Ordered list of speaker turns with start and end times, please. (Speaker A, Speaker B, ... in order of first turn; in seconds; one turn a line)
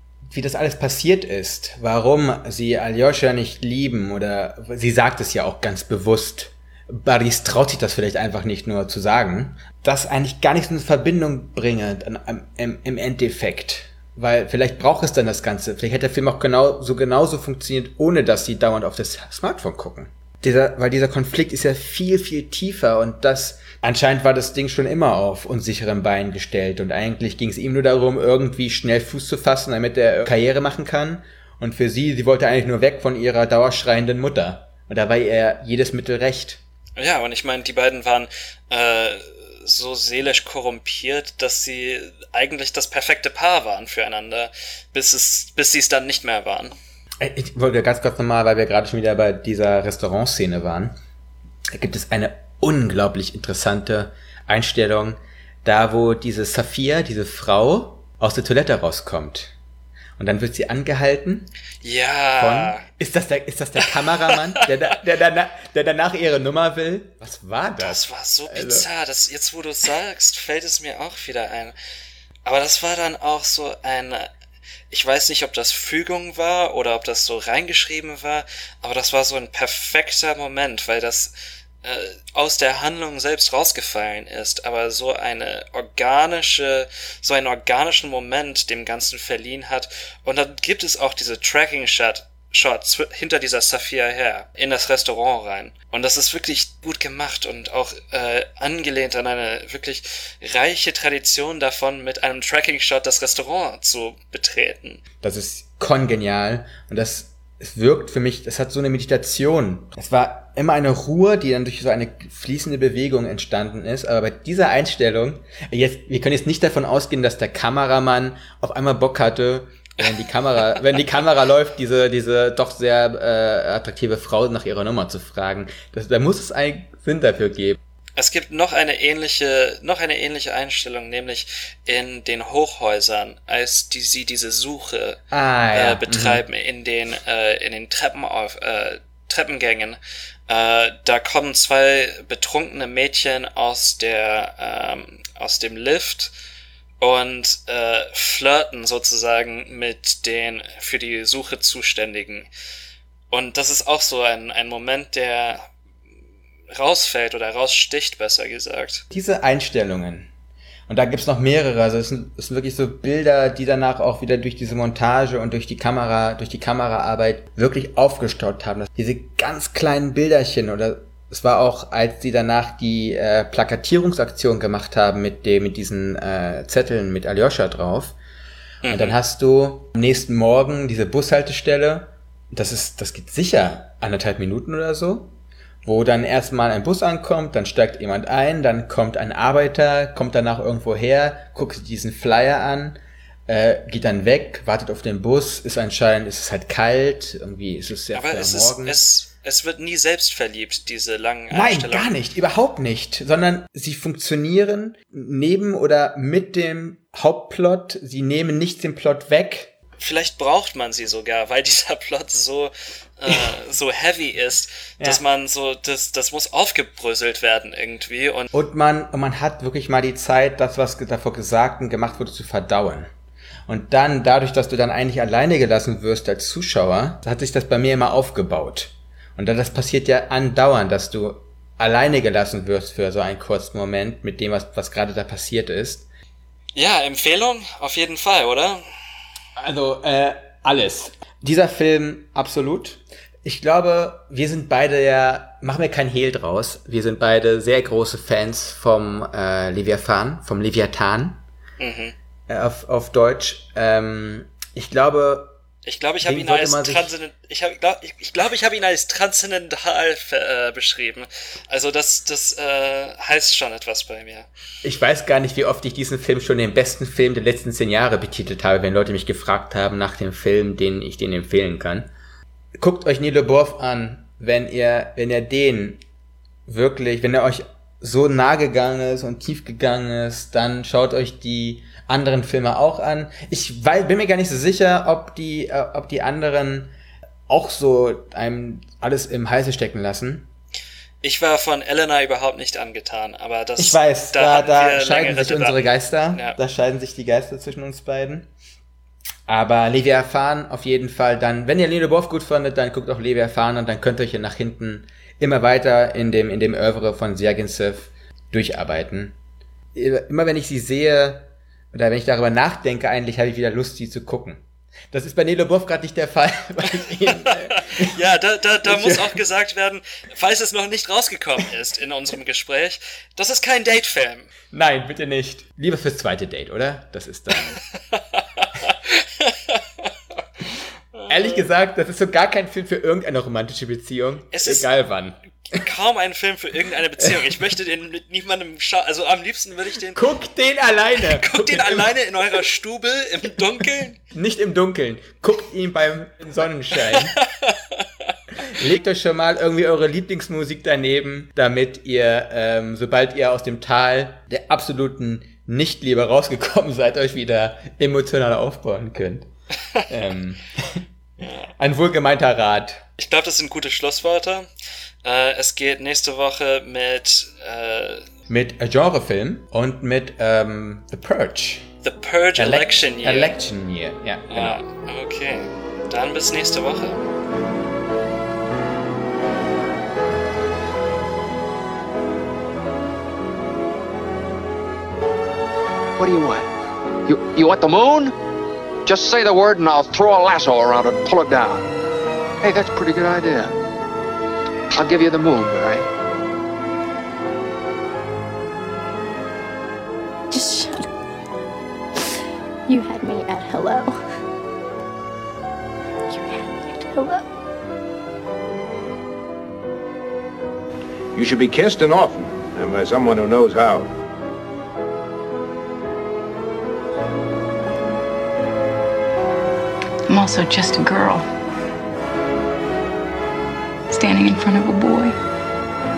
Speaker A: 0.3-36.6
Speaker B: 37.0-46.7
Speaker A: 47.2-51.0
Speaker A: 51.7-59.5
Speaker A: 60.2-61.5
Speaker B: 61.8-62.9
Speaker A: 62.4-68.9
Speaker B: 67.8-71.7
Speaker B: 72.5-74.3
Speaker B: 74.9-81.3
Speaker B: 81.8-105.0
Speaker A: 105.2-127.8
Speaker B: 128.2-135.2
Speaker A: 135.3-136.4
Speaker B: 135.7-146.3
Speaker B: 147.0-152.5
Speaker B: 153.3-155.7
Speaker B: 156.7-159.0
Speaker A: 159.1-160.3
Speaker A: 160.9-178.2
Speaker B: 178.8-179.2
Speaker A: 178.9-199.0
Speaker B: 198.1-202.1
Speaker A: 201.5-209.7
Speaker B: 210.0-218.5
Speaker A: 218.5-223.1
Speaker A: 223.7-236.1
Speaker B: 236.8-238.8
Speaker A: 239.6-251.4
Speaker B: 251.8-252.1
Speaker A: 252.5-255.5
Speaker B: 255.9-264.5
Speaker A: 256.2-257.1
Speaker A: 264.8-272.1
Speaker A: 272.8-276.0
Speaker A: 276.7-286.9
Speaker A: 287.5-290.5
Speaker B: 291.2-296.6
Speaker A: 293.8-298.5
Speaker A: 299.5-309.4
Speaker A: 309.9-318.1
Speaker B: 317.8-324.5
Speaker A: 318.8-319.4
Speaker A: 324.7-327.8
Speaker B: 328.1-330.1
Speaker B: 331.1-331.7
Speaker A: 331.3-335.4
Speaker B: 334.5-334.9
Speaker B: 335.7-340.2
Speaker A: 340.1-342.6
Speaker B: 341.2-344.2
Speaker A: 344.3-347.4
Speaker B: 347.1-348.0
Speaker A: 348.7-359.5
Speaker A: 360.1-361.0
Speaker B: 361.4-361.7
Speaker A: 361.8-363.0
Speaker B: 363.2-364.7
Speaker B: 365.2-368.2
Speaker A: 368.5-371.9
Speaker B: 372.0-373.6
Speaker A: 372.6-374.8
Speaker B: 374.5-377.2
Speaker C: 386.2-386.6
Speaker C: 387.3-388.3
Speaker C: 389.1-391.8
Speaker C: 392.6-393.7
Speaker C: 394.9-396.0
Speaker D: 400.5-401.1
Speaker D: 402.9-404.2
Speaker D: 406.3-407.5
Speaker E: 411.4-414.1
Speaker F: 420.3-421.5
Speaker F: 424.1-425.4